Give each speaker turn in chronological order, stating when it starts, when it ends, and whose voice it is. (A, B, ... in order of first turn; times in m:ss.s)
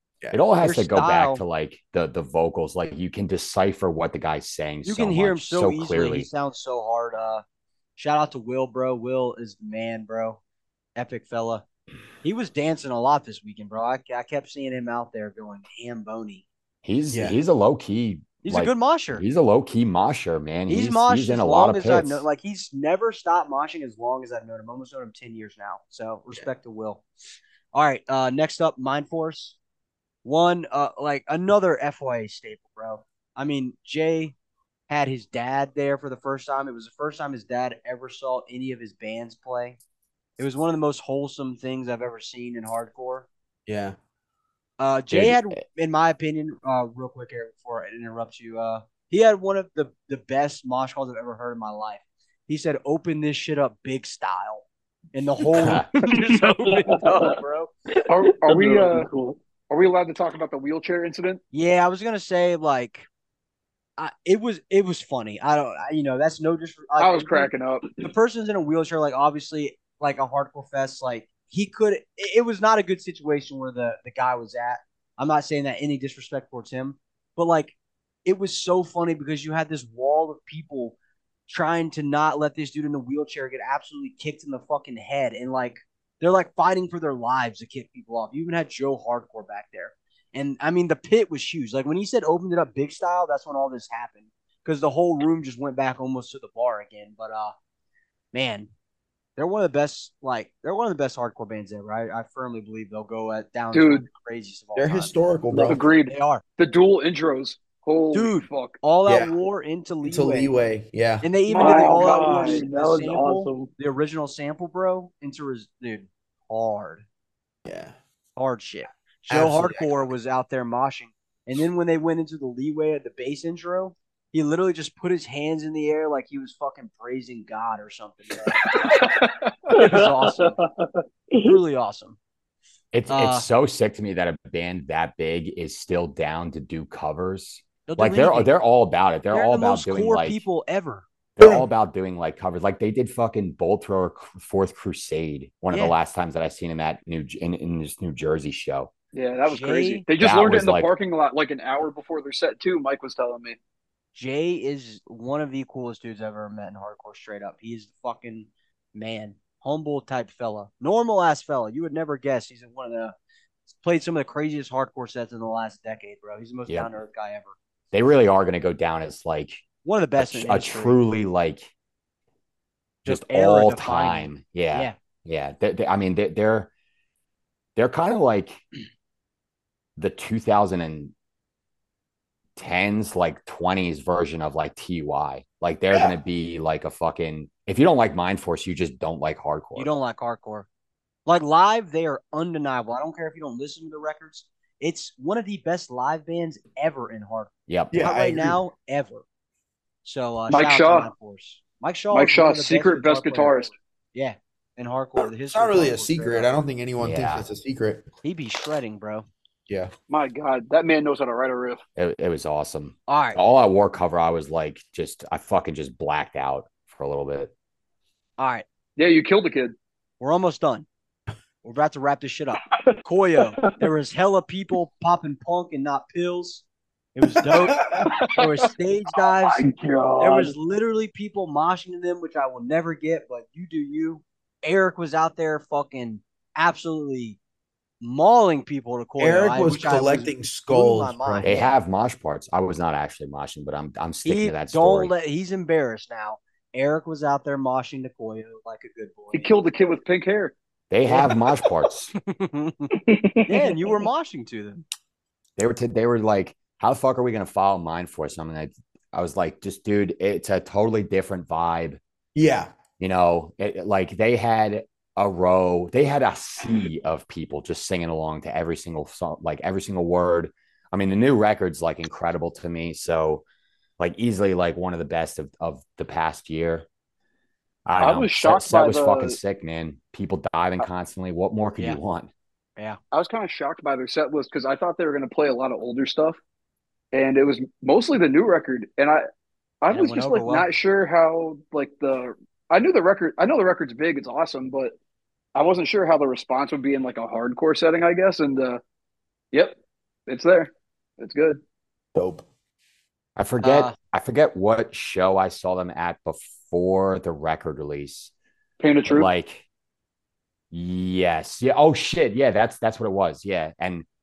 0:00.3-0:06.3 A
0:00.6-0:01.4 B
0:04.8-0:07.4 B
0:08.0-0:10.4 B
0:11.0-0:11.6 B
0:12.2-0:16.4 B
0:16.8-0:22.2 A
0:17.1-0:17.4 C
0:18.4-0:19.2 B
0:20.7-0:27.0 B
0:27.7-0:29.6 B
0:30.2-0:34.3 B
0:34.9-0:39.8 B
0:40.4-0:43.3 B
0:43.7-0:44.0 C
0:44.8-0:57.7 B
0:45.1-0:45.6 A
0:55.5-0:55.8 A
0:56.0-0:57.4 D
0:57.9-0:59.4 D
0:58.1-0:59.1 E
0:59.7-1:01.4 E
1:01.5-1:03.1 B
1:04.0-1:17.7 B
1:07.0-1:07.9 E
1:18.2-1:20.9 B
1:21.5-1:37.5 B
1:38.3-1:38.7 B
1:39.4-1:45.1 B
1:43.7-1:44.0 E
1:44.7-1:45.8 C
1:45.6-1:48.8 E
1:46.0-1:46.4 B
1:48.1-1:50.5 B
1:49.0-1:49.3 C
1:50.0-1:51.3 C
1:51.2-1:57.0 B
1:51.5-1:53.7 D
1:51.5-1:52.6 E
1:57.6-1:58.0 C
1:58.4-2:09.0 B
1:59.3-2:00.1 C
2:08.9-2:11.6 D
2:09.7-2:10.6 B
2:11.4-2:12.2 B
2:12.9-2:20.4 A
2:13.1-2:13.4 B
2:17.9-2:18.5 B
2:19.3-2:21.0 B
2:21.4-2:28.9 A
2:21.4-2:21.6 C
2:29.1-2:33.6 E
2:29.4-2:30.0 B
2:30.2-2:30.9 A
2:34.1-2:43.1 B
2:43.7-2:47.5 B
2:47.9-2:49.6 A
2:49.8-2:51.0 B
2:50.2-2:51.7 A
2:53.0-2:54.9 B
2:53.0-2:56.7 A
2:57.8-2:58.6 A
3:00.0-3:01.1 A
3:02.6-3:09.9 A
3:09.8-3:10.7 B
3:11.2-3:19.2 B
3:17.7-3:18.0 A
3:17.9-3:18.6 C
3:20.0-3:26.5 B
3:20.5-3:21.1 E
3:22.1-3:23.7 E
3:25.5-3:28.1 C
3:27.0-3:27.4 A
3:28.2-3:29.3 B
3:30.1-3:31.8 E
3:32.0-3:37.5 A
3:33.1-3:33.4 B
3:38.4-3:38.6 B
3:39.0-3:39.7 E
3:40.2-3:40.9 B
3:41.6-3:46.6 B
3:43.4-3:43.7 D
3:47.1-3:49.6 B
3:47.9-3:48.6 D
3:49.2-3:50.5 D
3:50.2-3:57.4 B
3:58.0-4:01.7 B
3:59.2-4:01.5 C
4:01.4-4:05.1 A
4:04.2-4:09.5 B
4:09.3-4:10.5 E
4:10.9-4:12.1 A
4:12.2-4:12.9 B
4:12.9-4:14.0 D
4:13.5-4:14.8 B
4:15.6-4:22.0 A
4:22.3-4:22.8 C
4:23.0-4:33.4 A
4:34.0-4:36.8 A
4:37.8-4:42.3 A
4:38.0-4:39.4 E
4:43.1-4:46.4 E
4:47.1-4:49.2 E
4:49.8-4:54.9 E
4:49.9-4:50.7 B
4:55.5-4:58.8 E
4:59.5-5:01.6 E
5:02.1-5:02.4 C
5:03.4-5:08.3 A
5:03.6-5:03.9 B
5:08.8-5:09.3 E
5:09.0-5:09.6 A
5:10.7-5:14.0 A